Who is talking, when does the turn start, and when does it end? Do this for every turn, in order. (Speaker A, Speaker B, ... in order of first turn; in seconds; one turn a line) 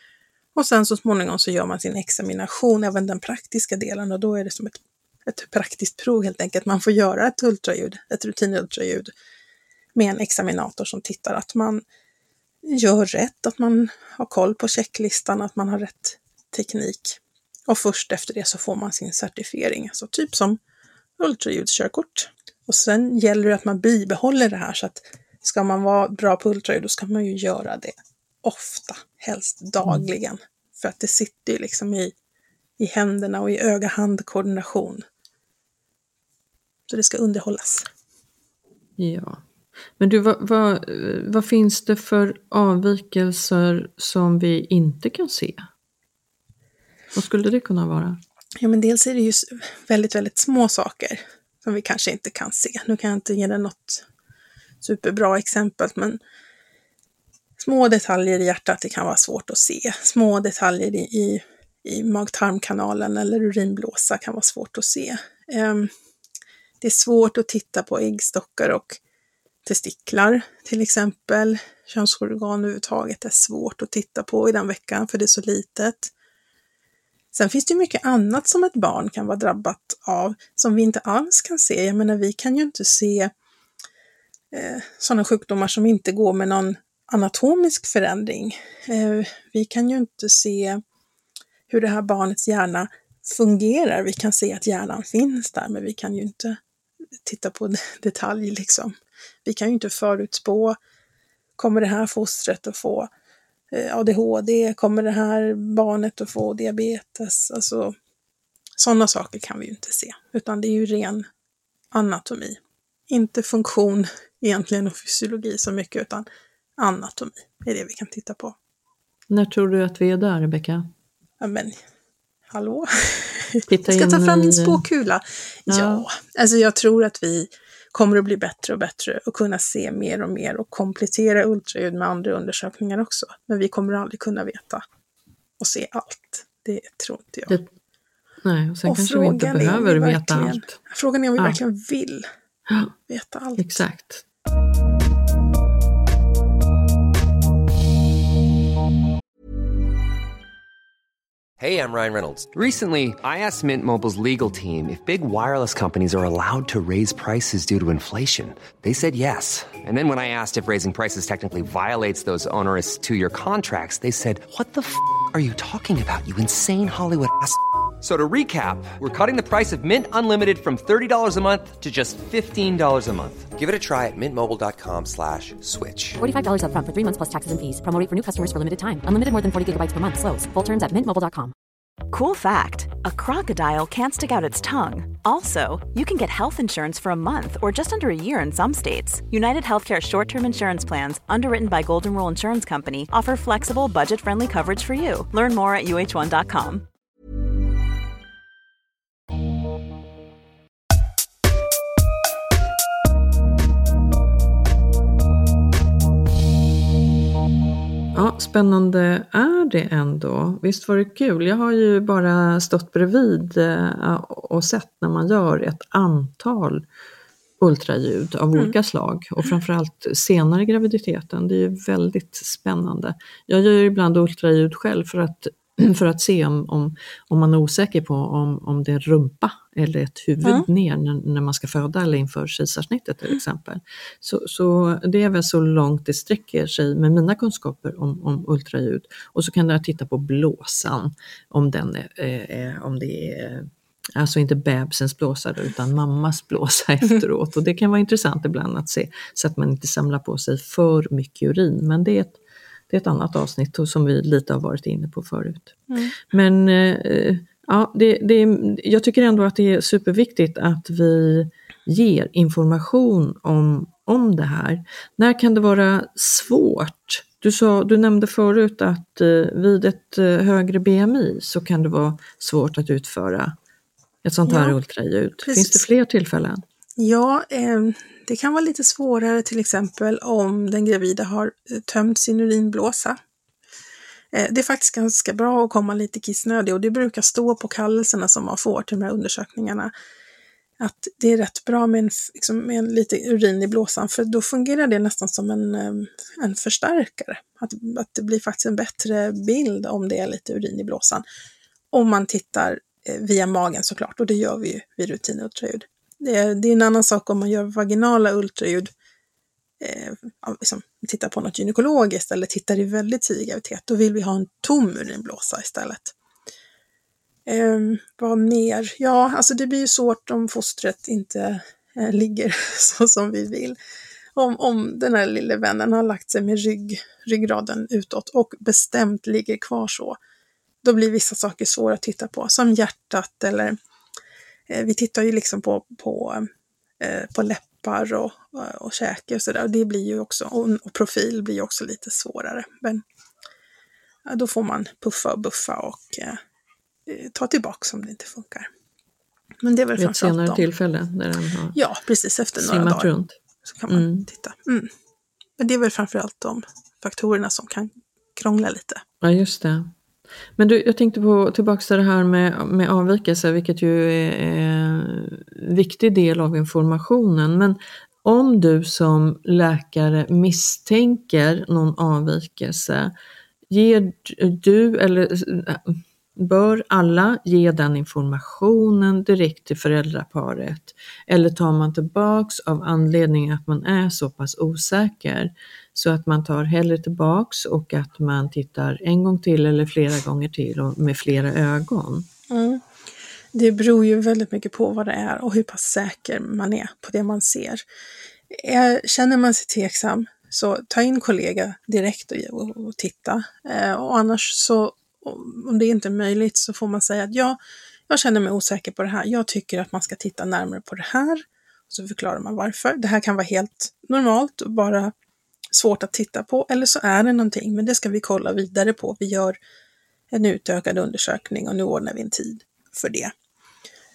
Speaker A: 0.5-9.1
Speaker A: 9.9-11.8
Speaker A: 12.6-20.6
Speaker A: 21.2-32.1
Speaker A: 32.8-35.0
Speaker A: 36.9-37.9
Speaker B: 39.0-39.4
Speaker B: 40.0-45.7
Speaker B: 47.1-48.2
Speaker A: 48.6-54.0
Speaker A: 54.8-56.2
Speaker A: 57.6-65.9
Speaker A: 66.8-69.0
Speaker A: 69.6-76.1
Speaker A: 77.3-83.3
Speaker A: 84.5-90.8
Speaker A: 91.7-96.6
Speaker A: 97.2-98.9
Speaker A: 99.4-100.8
Speaker A: 101.6-103.1
Speaker A: 103.7-107.9
Speaker A: 108.8-111.2
Speaker A: 111.9-116.2
Speaker A: 116.8-118.5
Speaker B: 119.3-120.9
Speaker A: 121.4-121.8
Speaker A: 122.5-134.8
Speaker B: 123.7-124.8
Speaker B: 125.7-126.0
Speaker A: 135.6-137.6
Speaker B: 138.4-140.8
Speaker A: 138.8-142.3
Speaker B: 142.7-142.9
Speaker A: 143.1-143.8
Speaker B: 143.6-144.2
Speaker C: 151.6-176.2
Speaker D: 176.2-181.5
Speaker E: 182.1-196.8
Speaker B: 208.1-216.8
Speaker B: 217.6-273.6
Speaker A: 230.4-230.7
Speaker B: 274.2-276.6
Speaker A: 274.4-274.8
Speaker A: 275.4-275.9
Speaker A: 277.0-283.2
Speaker A: 284.3-289.9
Speaker A: 290.8-301.2
Speaker A: 301.9-308.9
Speaker A: 309.8-316.1
Speaker A: 317.4-323.8
Speaker A: 324.4-330.2
Speaker A: 330.8-333.8
Speaker A: 334.7-336.5
Speaker A: 337.0-343.0
Speaker A: 344.2-346.4
Speaker A: 347.1-348.7
Speaker A: 349.6-350.6
Speaker B: 350.0-351.8
Speaker A: 351.7-353.1
Speaker B: 352.6-353.4
Speaker A: 353.6-354.9
Speaker B: 353.9-354.3
Speaker A: 355.6-359.0
Speaker B: 359.2-359.9
Speaker B: 360.6-373.1
Speaker B: 373.7-392.3
Speaker A: 392.5-392.8
Speaker A: 393.5-397.8
Speaker A: 398.5-407.6
Speaker A: 408.1-415.1
Speaker A: 415.7-419.6
Speaker A: 420.3-423.3